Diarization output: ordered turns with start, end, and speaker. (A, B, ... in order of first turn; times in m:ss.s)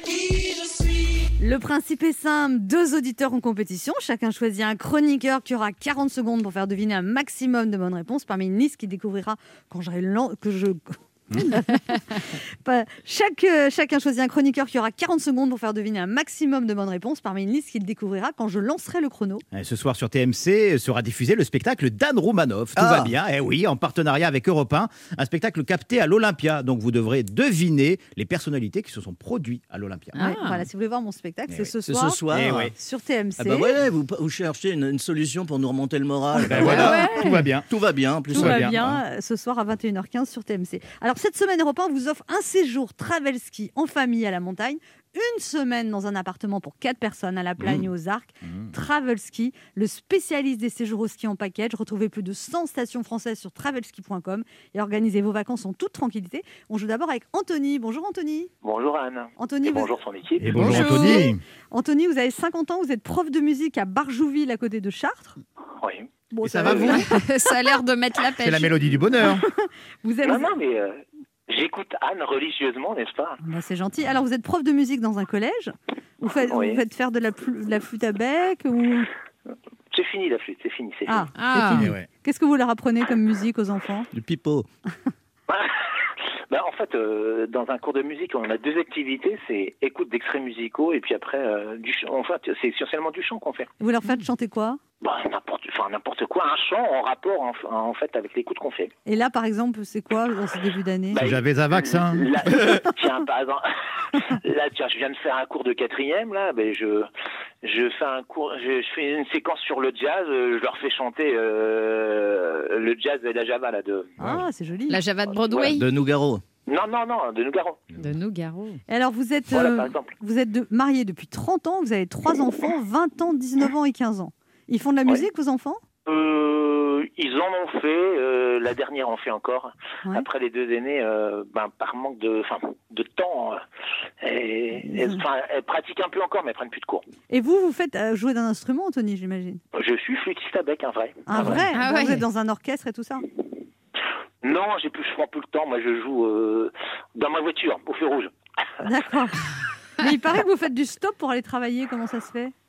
0:01.4-0:19.4 A
0:19.5-0:30.2 B
0:22.8-0:23.1 C
0:30.2-0:30.7 D
0:30.2-0:33.8 A
0:31.9-0:32.7 C
0:32.3-0:32.7 B
0:33.4-0:37.1 C
0:36.4-0:37.1 A
0:36.4-0:37.7 B
0:36.6-0:37.5 D
0:37.7-0:39.0 C
0:38.3-0:38.9 B
0:38.3-0:58.5 A
0:48.4-0:48.7 B
0:58.6-1:00.5 E
0:59.4-0:59.9 A
1:00.4-1:01.4 B
1:00.5-1:01.3 D
1:00.5-1:05.4 A
1:05.8-1:06.1 E
1:06.3-1:07.2 A
1:06.4-1:07.0 B
1:06.8-1:08.8 D
1:08.4-1:09.5 B
1:09.5-1:10.5 A
1:10.2-1:13.4 E
1:13.4-1:19.1 A
1:16.5-1:16.8 E
1:19.9-1:21.3 E
1:21.1-1:24.1 A
1:21.4-1:21.9 D
1:21.8-1:22.1 B
1:24.1-1:24.7 C
1:26.5-1:33.7 E
1:33.8-1:34.8 A
1:35.0-1:38.9 E
1:39.1-1:41.2 A
1:41.1-1:47.1 E
1:41.2-1:42.3 B
1:47.6-1:54.1 E
1:54.2-1:54.5 B
1:54.2-1:55.0 A
1:54.9-1:55.9 D
1:55.3-1:55.8 E
1:55.7-1:56.4 C
1:56.7-1:57.9 E
1:58.0-1:58.8 D
1:58.9-2:05.8 A
1:59.5-2:00.1 E
2:06.1-2:13.6 E
2:14.2-2:17.0 E
2:17.3-2:19.6 A
2:19.7-2:21.6 E
2:21.3-2:23.2 A
2:21.7-2:22.2 D
2:24.4-2:28.3 E
2:28.8-2:29.4 A
2:30.0-2:32.5 A